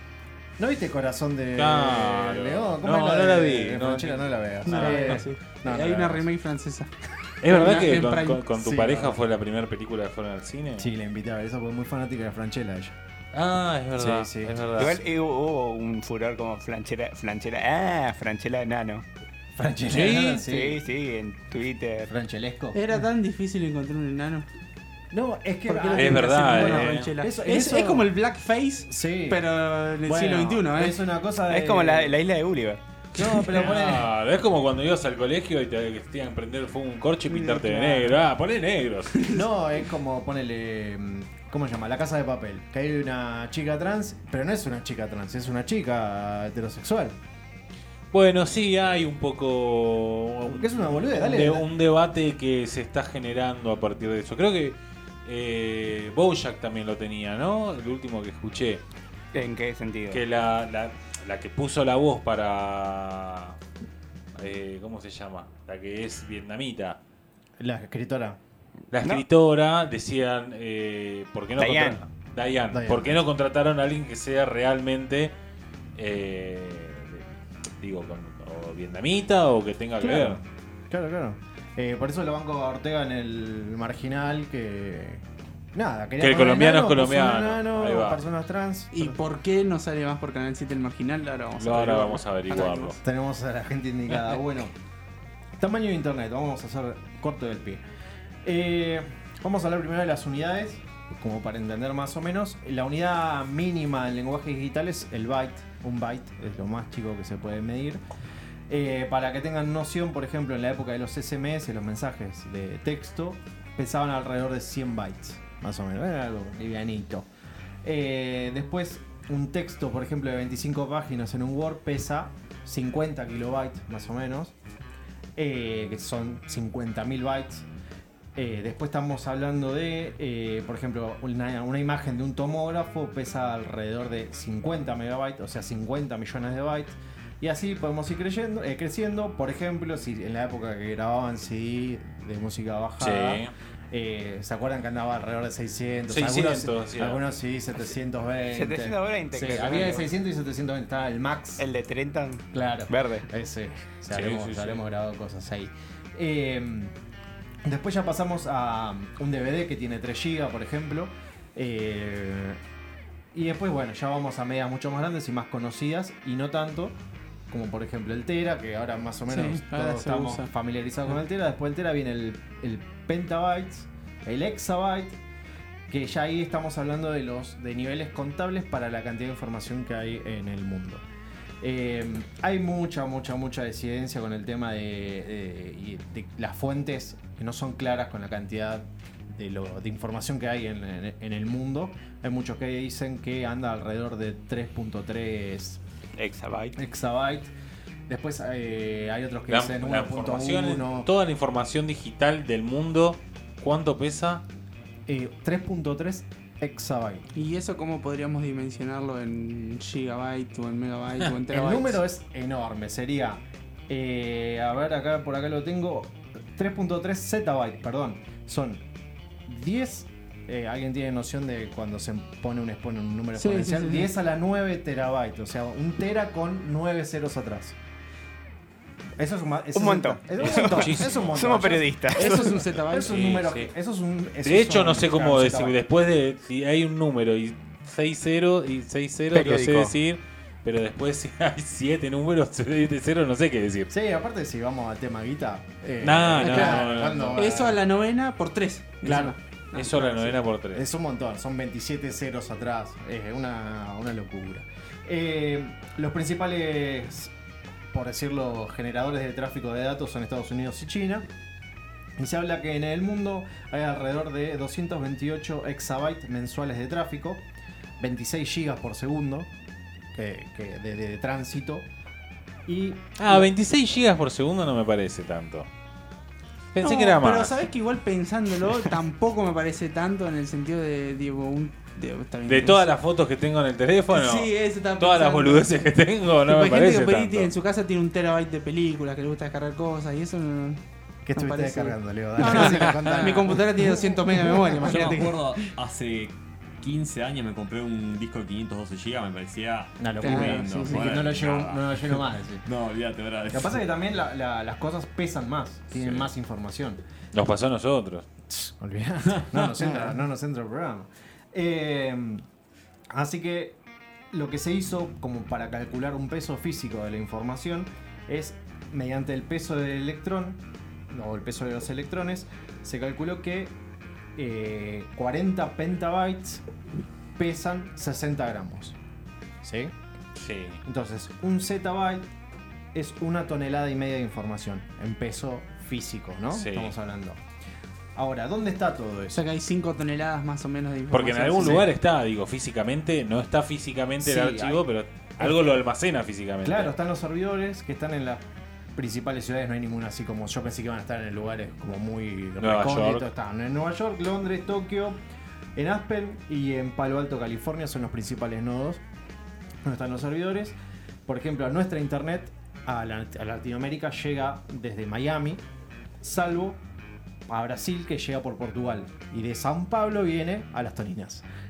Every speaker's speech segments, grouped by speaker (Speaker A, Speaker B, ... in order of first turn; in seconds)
Speaker A: 0.6-6.2, 8.6-9.2, 10.8-12.9, 13.9-14.9, 19.6-20.8, 22.1-23.0, 25.1-28.1, 28.9-29.4, 30.0-32.2, 33.1-34.1, 39.3-47.1, 50.5-51.7, 67.6-68.4, 72.7-73.2, 80.0-89.2, 93.0-94.7, 95.6-97.8, 98.4-108.0, 108.7-117.3, 117.8-124.5, 125.4-127.7, 128.3-151.6, 152.5-156.9, 157.6-162.6, 163.3-167.0, 167.5-175.2, 175.9-181.0, 181.6-195.8, 196.8-197.5, 198.1-201.1, 205.1-207.2, 211.5-218.8, 219.5-227.8, 229.2-235.8, 243.9-247.8, 249.0-257.3, 257.9-261.2, 262.2-267.4, 268.0-269.5, 270.1-271.9, 272.7-273.5, 291.2-295.6, 300.0-302.6, 303.5-307.0, 308.5-312.4, 313.1-313.8, 314.3-323.7, 324.4-326.6, 327.4-329.0, 329.6-329.9, 330.8-332.3, 332.9-337.4, 338.1-339.4, 341.5-341.9, 344.2-344.8, 346.6-348.4, 348.9-355.2, 355.8-359.0, 359.8-365.6, 366.2-366.8, 367.5-371.4
Speaker B: 1.6-5.2, 7.4-10.9, 13.3-14.9, 19.9-20.4, 25.9-27.1, 33.5-39.1, 48.1-58.8, 60.1-63.6, 64.3-67.0, 68.9-75.3, 76.0-80.4, 86.2-88.2, 91.6-93.0, 143.0-143.5, 146.1-147.2, 154.1-154.8, 199.5-204.4, 230.4-231.7, 233.0-233.7, 234.4-243.9, 246.0-247.5, 249.7-250.8, 273.2-275.7, 276.7-277.5, 282.4-287.5, 292.8-293.1, 307.3-308.2, 330.4-330.8, 336.5-336.9, 341.1-346.9, 352.6-353.3
Speaker C: 4.6-6.9, 7.5-8.5, 22.7-24.5, 25.6-31.0, 33.2-33.7, 37.3-38.2, 39.1-39.4, 88.9-93.0, 169.3-170.5, 207.3-212.0, 223.4-224.1, 232.1-233.1, 246.4-246.8, 247.3-249.4, 276.8-282.9, 284.1-285.7, 286.3-290.8, 291.3-295.1, 300.2-301.1, 339.3-341.8
Speaker D: 14.8-19.0, 20.5-22.1, 31.5-32.8, 59.3-60.2, 71.5-72.0, 148.5-150.1, 151.6-153.2, 196.2-196.8, 229.7-232.3, 239.3-239.9
Speaker E: 294.8-303.8, 306.0-306.2, 309.5-309.7